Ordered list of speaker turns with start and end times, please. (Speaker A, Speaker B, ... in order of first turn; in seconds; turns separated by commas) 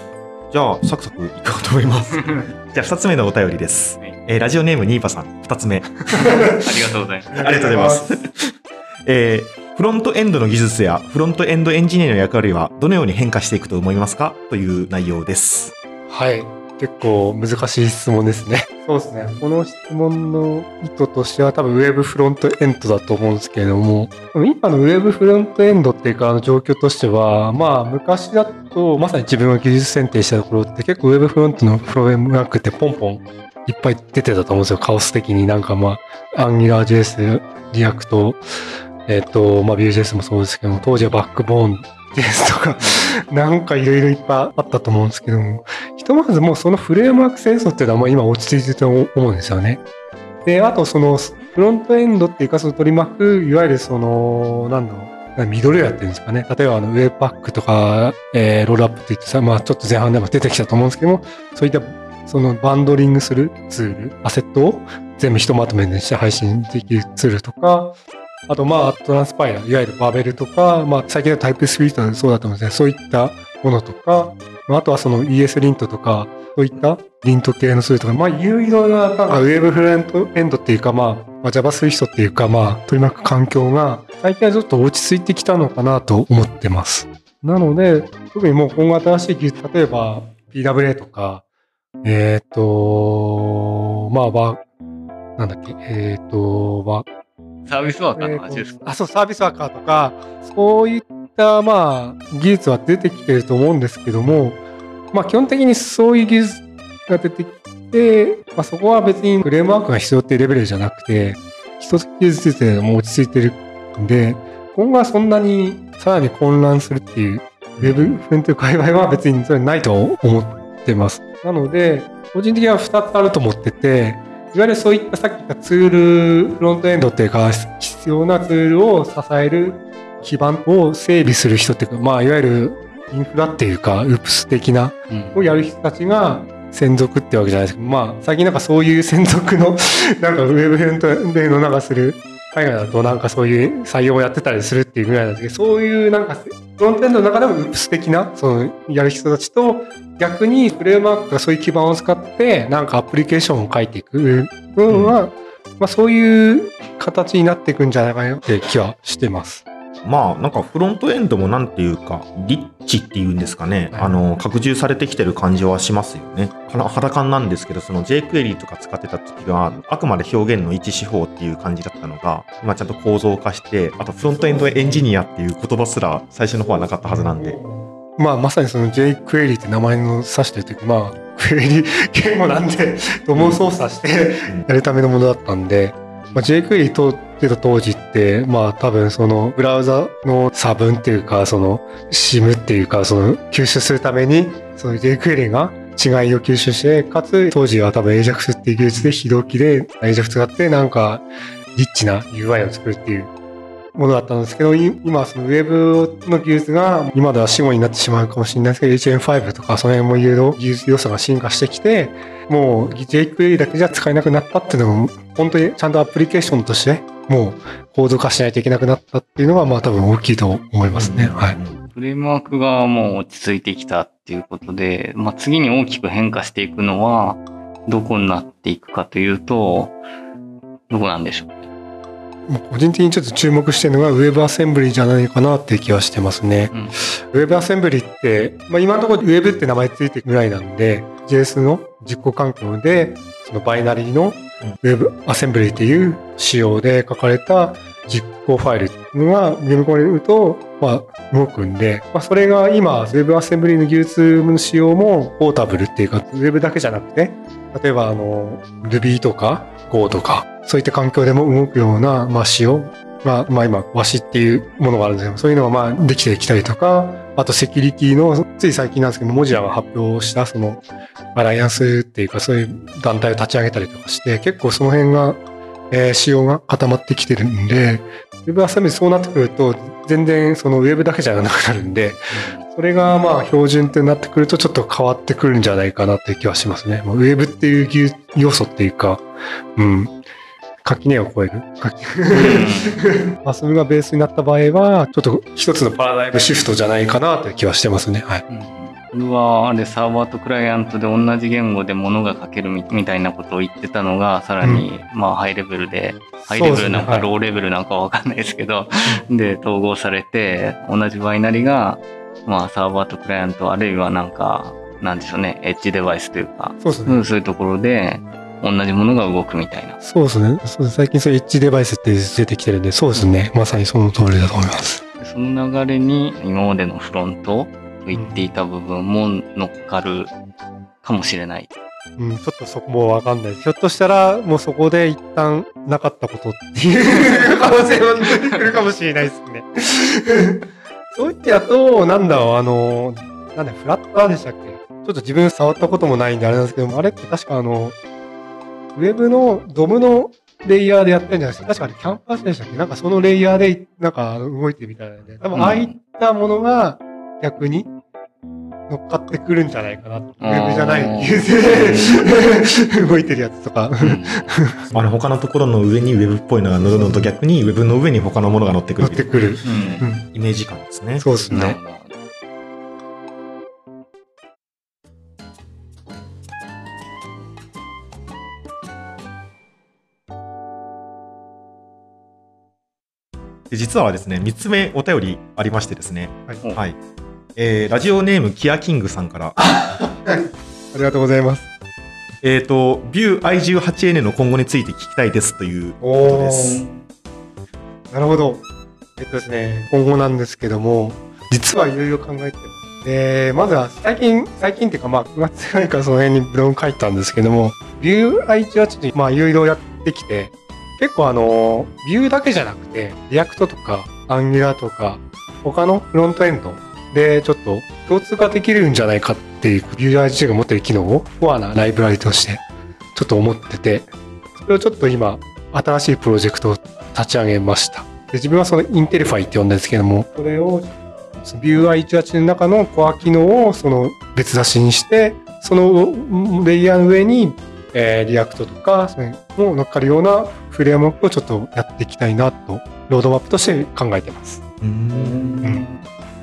Speaker A: 0.5-6.0, Speaker B: 6.1-7.5, Speaker C: 6.2-6.6, Speaker C: 7.3-8.0, Speaker A: 7.4-15.7, Speaker C: 16.1-38.4, Speaker C: 39.1-49.8, Speaker A: 40.8-41.1, Speaker B: 42.8-43.2, Speaker C: 50.5-68.0, Speaker C: 68.5-91.4, Speaker C: 92.0-94.6, Speaker C: 95.4-97.1, Speaker B: 97.7-98.9, Speaker C: 98.2-104.6, Speaker C: 105.1-159.6, Speaker A: 117.8-118.2, Speaker B: 135.1-135.4, Speaker A: 154.9-155.2, Speaker A: 160.0-177.6, Speaker C: 163.9-164.2, Speaker C: 174.2-175.1, Speaker C: 177.0-203.3, Speaker A: 183.3-183.6, Speaker C: 203.9-221.6, Speaker A: 220.9-221.8, Speaker B: 221.9-230.0, Speaker B: 230.9-231.7, Speaker C: 232.5-236.7, Speaker B: 236.7-237.0, Speaker C: 237.3-270.8, Speaker C: 271.4-290.2, Speaker B: 282.3-282.6, Speaker C: 290.8-298.4, Speaker B: 292.3-293.0, Speaker B: 298.5-320.0, Speaker C: 304.6-304.9, Speaker C: 306.4-307.3, Speaker C: 316.8-317.3, Speaker C: 320.0-325.0, Speaker B: 325.2-330.3, Speaker C: 328.1-328.5, Speaker B: 331.0-331.7, Speaker C: 332.2-348.0, Speaker B: 337.2-337.4, Speaker C: 348.9-357.9, Speaker B: 355.5-356.0, Speaker C: 358.9-364.9, Speaker B: 360.4-362.2, Speaker B: 364.0-364.5, Speaker A: 364.9-371.3, Speaker C: 366.8-367.3, Speaker C: 369.0-370.2, Speaker B: 369.6-370.1, Speaker C: 371.2-371.8, Speaker B: 371.5-372.2, Speaker A: 383.7-387.0, Speaker A: 387.6-389.6, Speaker C: 389.6-391.7, Speaker A: 392.4-396.9, Speaker C: 396.0-396.9, Speaker C: 398.1-398.6, Speaker C: 399.2-444.6, Speaker A: 444.8-445.5, Speaker B: 445.1-446.0